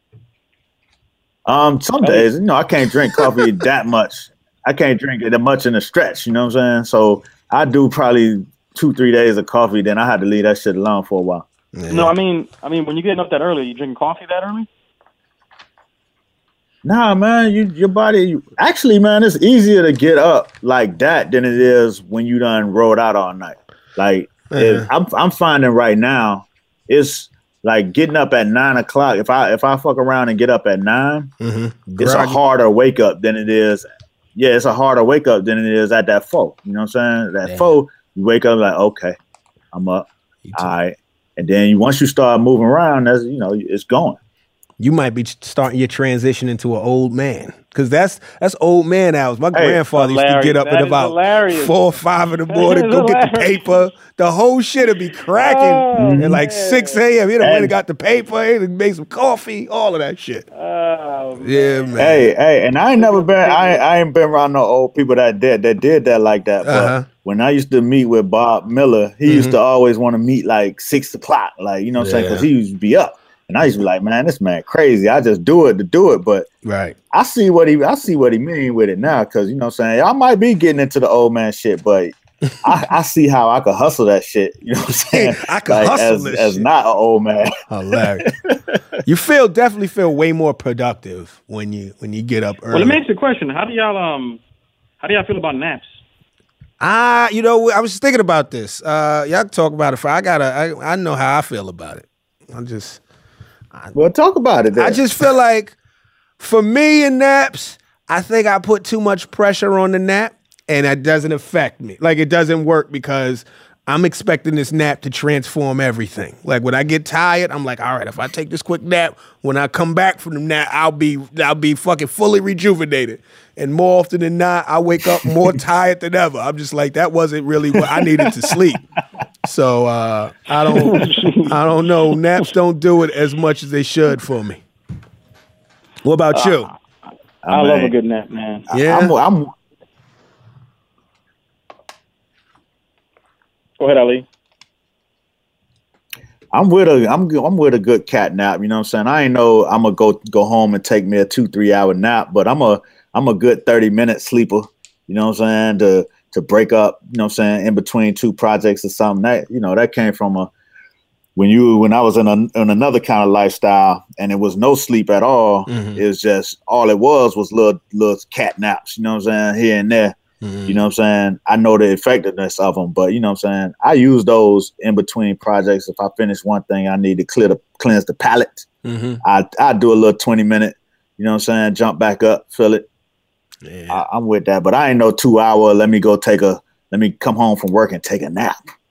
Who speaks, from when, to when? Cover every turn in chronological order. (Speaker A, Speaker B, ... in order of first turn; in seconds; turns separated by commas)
Speaker A: 1.4-11.4, Speaker B: 2.0-2.3, Speaker C: 11.7-12.1, Speaker B: 11.9-14.7, Speaker A: 16.8-31.3, Speaker C: 24.5-24.9, Speaker C: 31.4-32.4, Speaker A: 32.0-39.2, Speaker C: 37.5-37.7, Speaker A: 39.7-44.2, Speaker C: 40.4-40.7, Speaker C: 44.8-60.5, Speaker A: 49.5-49.8, Speaker B: 49.9-51.7, Speaker B: 52.5-53.7, Speaker B: 55.3-57.0, Speaker A: 56.0-56.4, Speaker A: 57.4-57.7, Speaker B: 60.5-62.0, Speaker C: 61.4-62.3, Speaker A: 62.0-76.5, Speaker B: 63.0-63.8, Speaker C: 66.6-67.1, Speaker C: 69.2-69.6, Speaker C: 72.0-72.5, Speaker C: 76.6-77.0, Speaker A: 77.1-88.8, Speaker C: 85.1-86.7, Speaker C: 87.7-88.3, Speaker C: 89.0-93.0, Speaker B: 92.7-94.4, Speaker B: 95.0-95.9, Speaker C: 96.8-103.0, Speaker A: 103.9-105.0, Speaker C: 104.8-105.7, Speaker C: 106.4-128.8, Speaker A: 127.8-128.5, Speaker C: 129.4-134.6, Speaker B: 130.7-131.5, Speaker C: 136.0-136.7, Speaker B: 136.3-136.7, Speaker A: 137.4-137.9, Speaker B: 137.5-138.7, Speaker A: 138.7-139.5, Speaker C: 138.7-139.1, Speaker B: 143.8-144.2, Speaker A: 146.5-160.5, Speaker A: 161.3-170.1, Speaker C: 165.7-166.0, Speaker C: 170.4-170.8, Speaker A: 170.7-178.7, Speaker C: 178.8-179.2, Speaker A: 179.2-182.9, Speaker C: 183.6-184.0, Speaker A: 183.9-188.6